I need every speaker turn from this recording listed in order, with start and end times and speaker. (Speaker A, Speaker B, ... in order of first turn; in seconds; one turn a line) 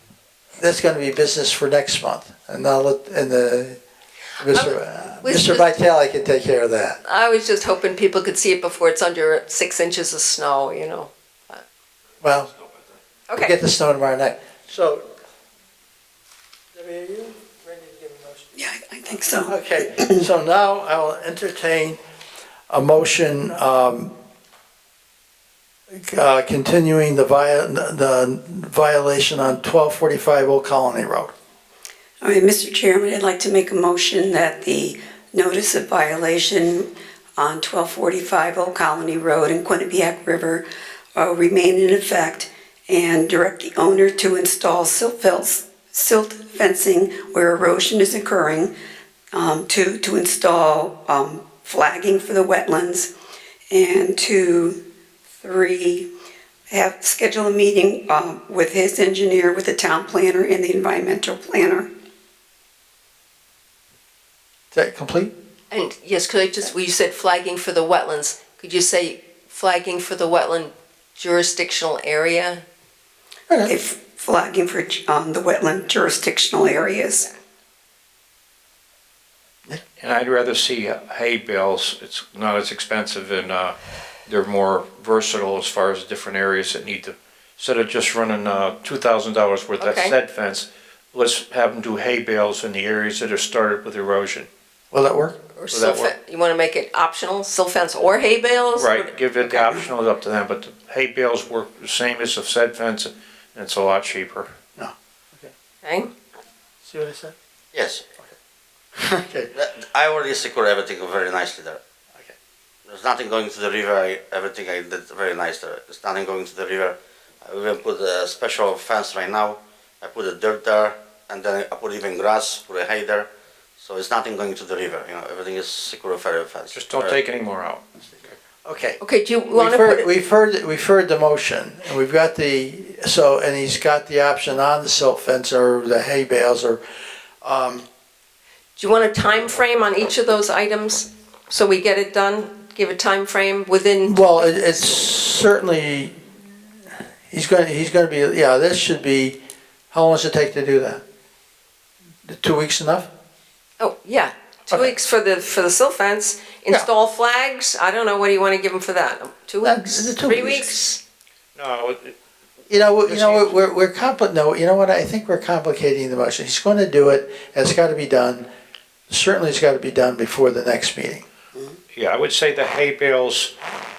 Speaker A: 0.6-3.8
Speaker A: 4.4-7.0
Speaker B: 4.5-5.7
Speaker B: 7.0-11.6
Speaker A: 12.2-12.5
Speaker B: 13.3-13.6
Speaker A: 13.4-15.1
Speaker A: 16.7-18.4
Speaker C: 18.5-20.2
Speaker A: 19.4-22.0
Speaker A: 22.7-24.1
Speaker A: 25.9-31.3
Speaker C: 32.2-48.7
Speaker C: 49.3-53.1
Speaker C: 53.7-54.9
Speaker C: 55.4-56.1
Speaker C: 56.7-61.9
Speaker A: 64.7-65.3
Speaker B: 65.7-72.6
Speaker A: 73.5-73.7
Speaker C: 73.6-77.3
Speaker D: 80.0-83.7
Speaker D: 84.3-94.5
Speaker B: 89.8-90.2
Speaker A: 94.9-95.4
Speaker B: 95.5-99.7
Speaker D: 95.7-96.1
Speaker D: 98.8-104.5
Speaker A: 104.8-105.5
Speaker B: 105.8-106.1
Speaker A: 106.8-107.3
Speaker E: 107.7-108.0
Speaker A: 109.0-109.5
Speaker E: 109.5-111.8
Speaker E: 112.9-123.3
Speaker E: 123.8-127.2
Speaker D: 126.7-128.3
Speaker A: 128.6-129.0
Speaker B: 129.0-130.0
Speaker A: 129.5-136.8
Speaker A: 137.4-137.8
Speaker B: 138.8-145.0
Speaker A: 144.0-146.4
Speaker A: 147.3-149.4
Speaker A: 149.9-151.0
Speaker A: 152.2-153.1
Speaker B: 153.8-161.0
Speaker A: 159.6-160.7
Speaker D: 161.6-162.1
Speaker A: 162.7-168.5
Speaker D: 163.1-163.6
Speaker A: 169.1-171.2
Speaker D: 171.9-173.5